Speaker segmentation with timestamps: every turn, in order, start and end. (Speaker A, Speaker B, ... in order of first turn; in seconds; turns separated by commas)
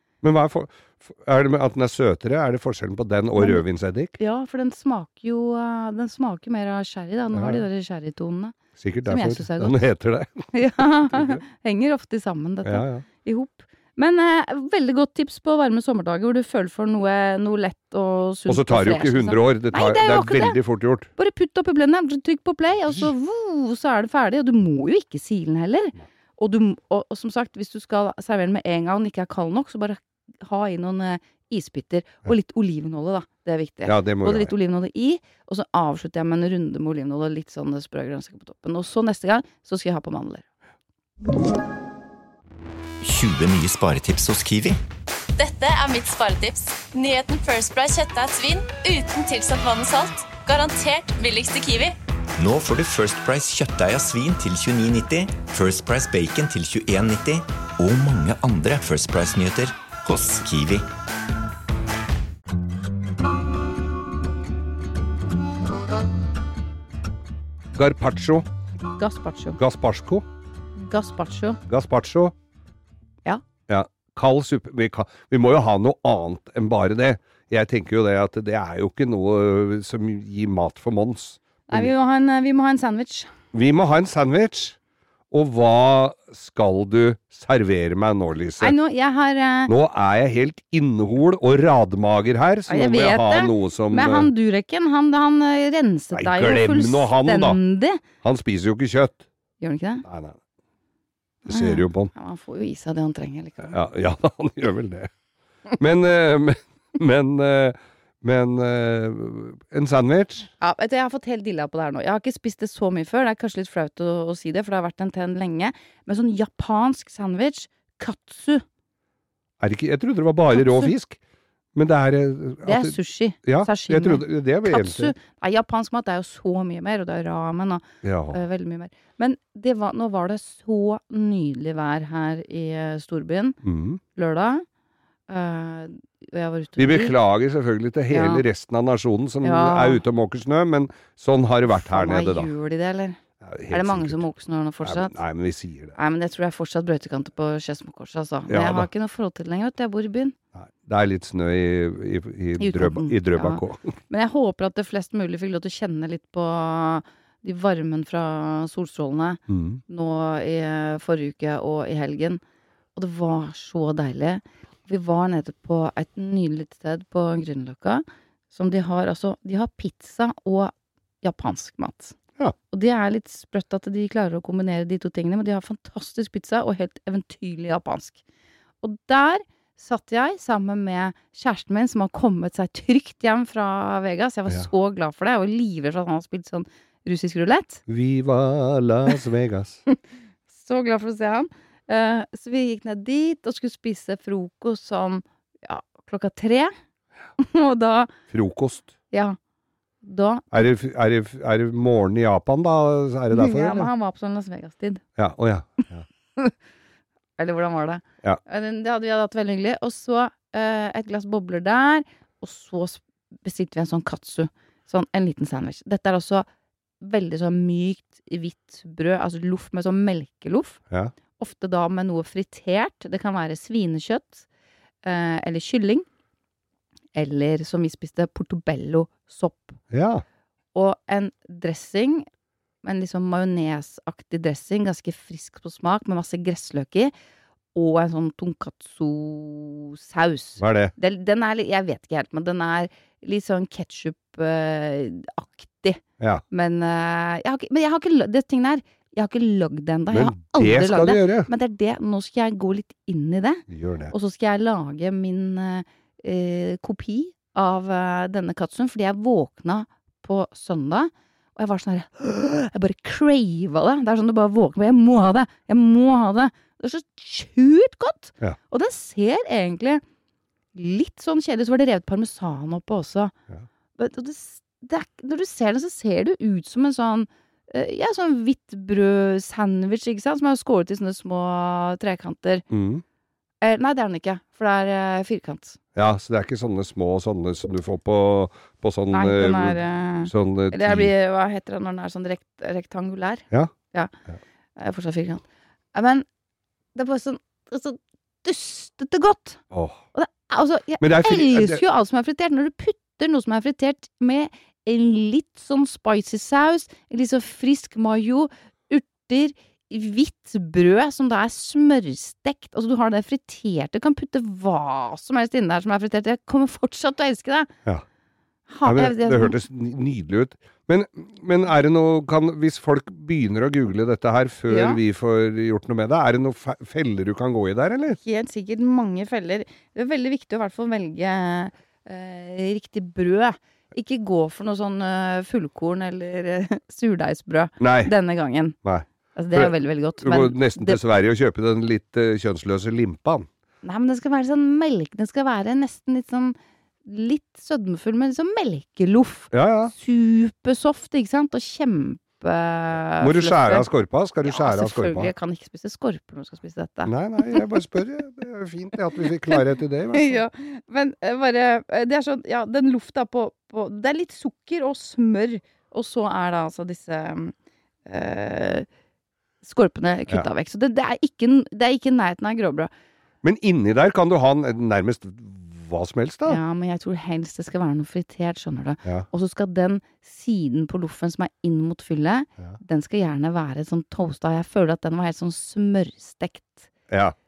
Speaker A: 0.2-4.2, Speaker B: 3.4-3.6, Speaker B: 4.2-9.8, Speaker A: 7.3-7.6, Speaker A: 8.8-10.5, Speaker B: 10.5-20.6, Speaker A: 11.1-11.4, Speaker A: 12.6-13.0, Speaker A: 18.5-21.1, Speaker B: 21.1-40.5, Speaker A: 33.9-34.5, Speaker C: 43.0-44.8, Speaker D: 45.4-51.9, Speaker C: 52.4-60.9, Speaker A: 67.7-68.5, Speaker B: 69.0-69.6, Speaker A: 69.6-70.2, Speaker B: 70.8-71.6, Speaker A: 71.7-72.3, Speaker A: 73.7-81.9, Speaker B: 81.7-83.3, Speaker A: 83.5-84.8, Speaker A: 85.3-88.7, Speaker B: 88.6-89.7, Speaker A: 89.7-94.3, Speaker B: 92.7-98.0, Speaker A: 96.1-97.6, Speaker A: 98.2-99.2, Speaker B: 99.6-100.0, Speaker A: 100.0-100.4, Speaker A: 101.5-102.1, Speaker B: 101.5-103.8, Speaker A: 103.7-105.1, Speaker A: 105.8-110.5, Speaker B: 110.6-118.6, Speaker A: 119.6-121.2, Speaker B: 120.5-120.9, Speaker A: 121.7-125.1, Speaker B: 122.6-133.6, Speaker A: 128.0-128.4, Speaker A: 133.6-134.0, Speaker B: 134.1-134.6, Speaker B: 135.3-137.1, Speaker A: 136.8-142.5, Speaker B: 138.1-138.4, Speaker B: 139.4-140.0, Speaker B: 141.8-145.2, Speaker A: 143.4-144.2, Speaker A: 144.8-145.9, Speaker B: 145.9-150.3, Speaker A: 148.5-148.9, Speaker A: 150.5-153.9, Speaker B: 152.6-162.4, Speaker A: 159.5-159.8, Speaker B: 162.9-172.2, Speaker B: 172.7-178.2, Speaker B: 178.8-187.8, Speaker A: 187.9-189.8, Speaker B: 190.5-196.7, Speaker B: 197.4-198.1, Speaker A: 198.3-198.9, Speaker B: 199.1-199.4, Speaker B: 200.0-200.6, Speaker A: 200.5-203.9, Speaker B: 203.3-205.0, Speaker A: 205.2-206.0, Speaker B: 207.4-216.5, Speaker B: 217.0-220.8, Speaker B: 221.4-224.4, Speaker B: 225.0-226.1, Speaker B: 227.1-229.8, Speaker A: 229.9-230.2, Speaker B: 230.7-232.2, Speaker B: 232.8-237.1, Speaker B: 237.7-270.0, Speaker A: 240.6-240.9, Speaker A: 246.2-246.4, Speaker A: 250.1-251.5, Speaker A: 253.7-254.1, Speaker B: 270.7-273.3, Speaker B: 274.0-282.6, Speaker A: 282.7-283.0, Speaker B: 283.6-285.8, Speaker A: 285.9-291.1, Speaker B: 289.1-294.1, Speaker B: 294.8-296.2, Speaker B: 296.9-299.6, Speaker A: 299.7-300.0, Speaker B: 300.1-317.7, Speaker A: 301.0-301.8, Speaker B: 318.7-319.6, Speaker A: 318.8-328.2, Speaker B: 324.7-325.0, Speaker B: 328.1-338.8, Speaker A: 337.8-338.1, Speaker A: 338.8-343.5, Speaker B: 339.3-341.0, Speaker B: 343.8-353.9, Speaker A: 349.5-349.9, Speaker A: 353.2-355.3, Speaker B: 354.4-357.7, Speaker A: 357.0-360.4, Speaker B: 360.1-367.5, Speaker B: 368.1-368.9, Speaker B: 369.6-372.9, Speaker A: 373.4-376.6, Speaker B: 376.4-386.9, Speaker A: 387.1-387.3